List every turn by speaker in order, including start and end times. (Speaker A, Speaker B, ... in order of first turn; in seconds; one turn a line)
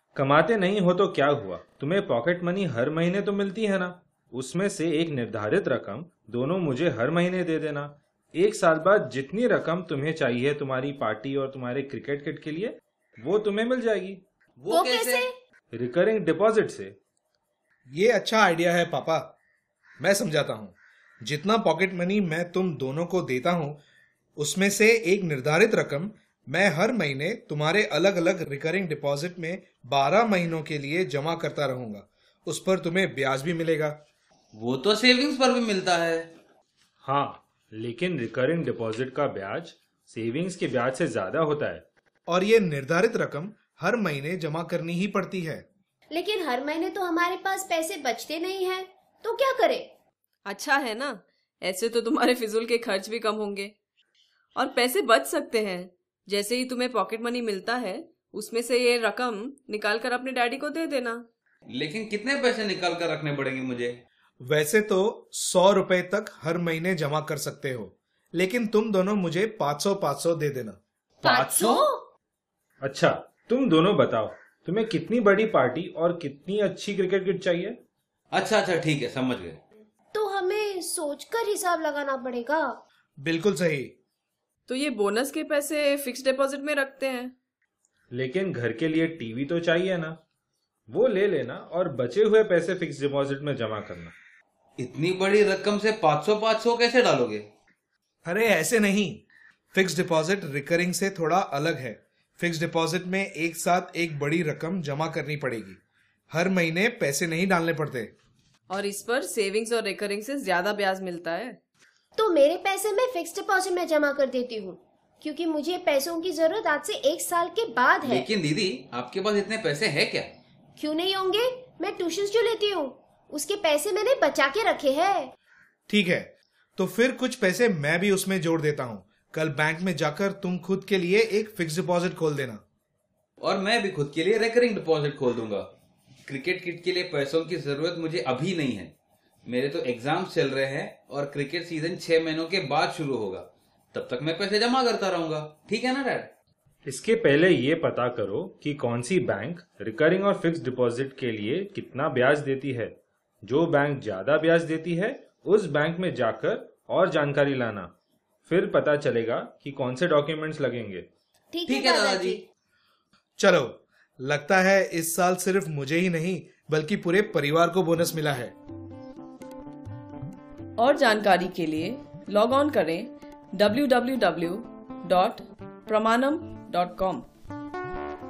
Speaker A: 0.1-14.2
Speaker B: 14.6-15.3
Speaker C: 14.7-15.3
Speaker A: 15.7-16.9
Speaker D: 17.9-19.3
Speaker D: 20.0-23.8
Speaker D: 24.4-34.0
Speaker B: 34.5-36.3
Speaker A: 37.0-41.8
Speaker D: 42.3-45.6
Speaker C: 46.1-49.9
Speaker E: 50.5-53.7
Speaker E: 54.6-61.3
Speaker B: 61.7-64.0
Speaker D: 64.4-70.8
Speaker C: 71.2-72.1
Speaker B: 71.3-71.8
Speaker A: 72.8-77.8
Speaker B: 78.3-79.6
Speaker C: 80.1-82.8
Speaker D: 83.2-83.9
Speaker E: 84.7-87.3
Speaker A: 88.1-90.2
Speaker A: 90.9-94.1
Speaker B: 94.8-97.5
Speaker D: 98.2-99.2
Speaker D: 99.7-105.8
Speaker D: 106.3-108.1
Speaker E: 108.7-111.6
Speaker C: 112.2-118.3
Speaker B: 118.0-120.3
Speaker C: 120.8-125.3
Speaker D: 125.9-132.6
Speaker B: 133.4-135.7
Speaker B: 136.3-138.9
Speaker B: 139.5-146.3
Speaker A: 146.9-152.9
Speaker A: 153.4-157.9
Speaker A: 158.5-161.1
Speaker C: 161.5-162.4
Speaker B: 161.7-162.4
Speaker D: 163.4-168.5
Speaker E: 170.8-177.3